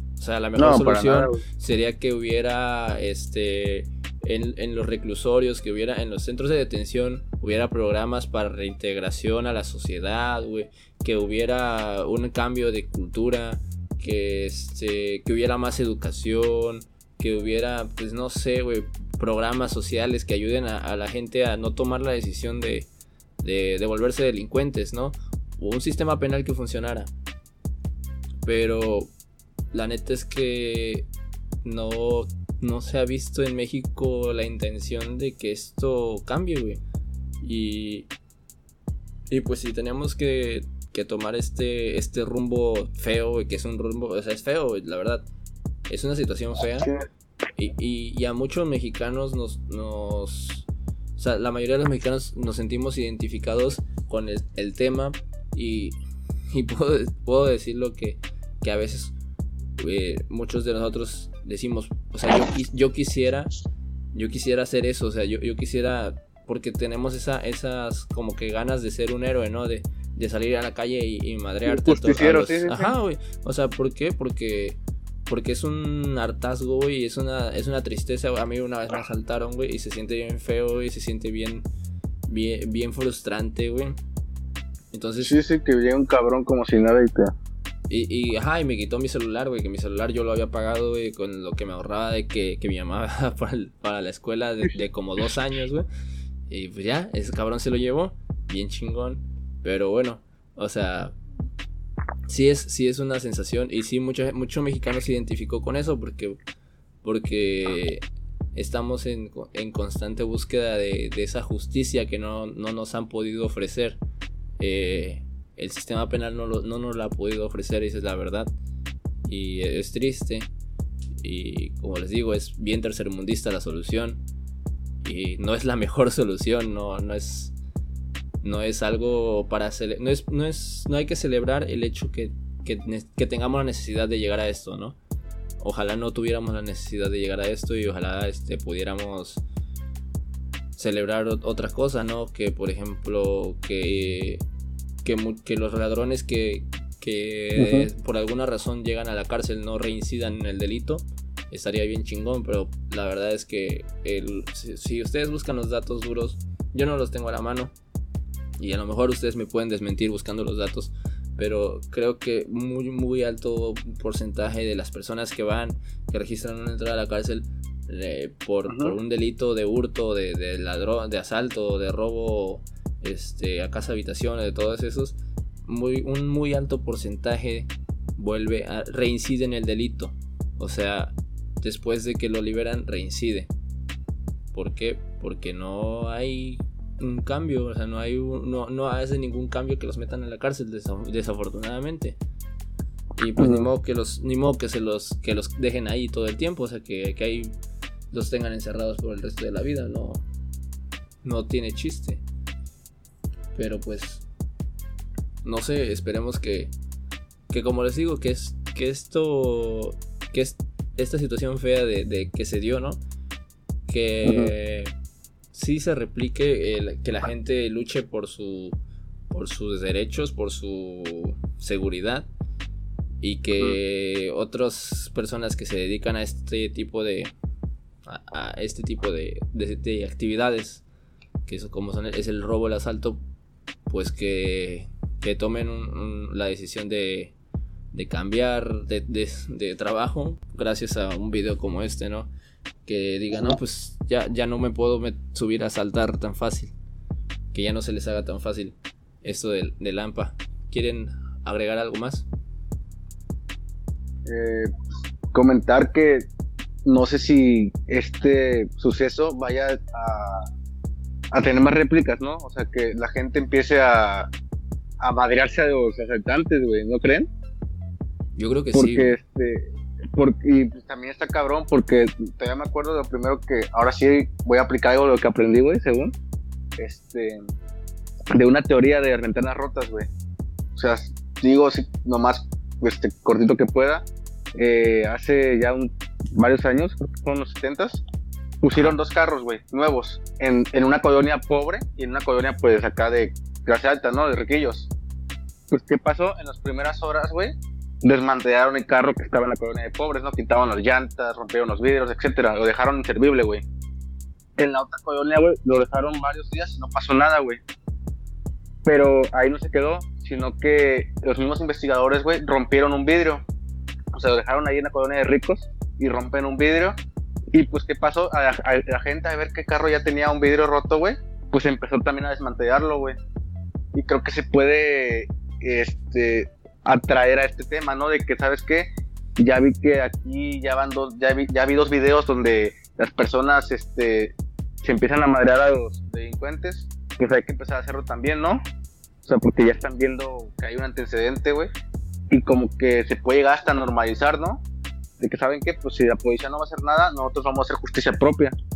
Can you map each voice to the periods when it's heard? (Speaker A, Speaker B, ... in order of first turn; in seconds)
Speaker A: 0.2-22.9, 23.4-27.1, 28.4-29.1, 29.7-31.1, 31.6-36.8, 37.4-38.1, 39.3-45.3, 45.9-46.9, 47.5-55.9, 56.5-59.1, 59.8-63.5, 64.1-81.6, 82.3-84.0, 84.9-85.4, 87.9-95.8, 96.5-101.2, 102.3-106.4, 107.0-108.0, 108.5-114.0, 114.6-118.5, 119.2-120.5, 121.2-124.2, 125.0-127.5, 128.4-135.0, 135.6-139.4, 140.8-144.4, 145.0-157.7, 158.6-183.5, 184.5-192.2, 193.2-197.5, 198.1-200.2, 201.2-202.2, 203.5-204.2, 205.4-206.7, 207.5-213.0, 213.9-214.9, 215.5-218.8, 219.3-222.3, 223.2-227.3, 228.0-230.8, 231.4-233.2, 233.9-237.3, 237.9-242.3, 242.8-246.7, 247.5-252.2, 268.4-269.2, 288.7-289.0
Speaker B: 0.6-1.4, 71.7-72.9, 85.2-87.3, 147.6-147.9, 168.7-169.0, 193.4-193.7, 214.2-214.5, 254.2-254.7, 255.3-256.3, 256.8-260.5, 261.3-264.3, 265.0-267.3, 268.7-276.1, 276.8-277.4, 278.3-280.1, 280.8-284.0, 284.6-288.0, 288.6-294.9, 295.7-303.6, 304.6-307.6, 308.8-313.4, 314.1-316.9, 317.5-323.2, 323.9-338.6, 339.2-341.7, 342.3-344.6, 345.2-348.6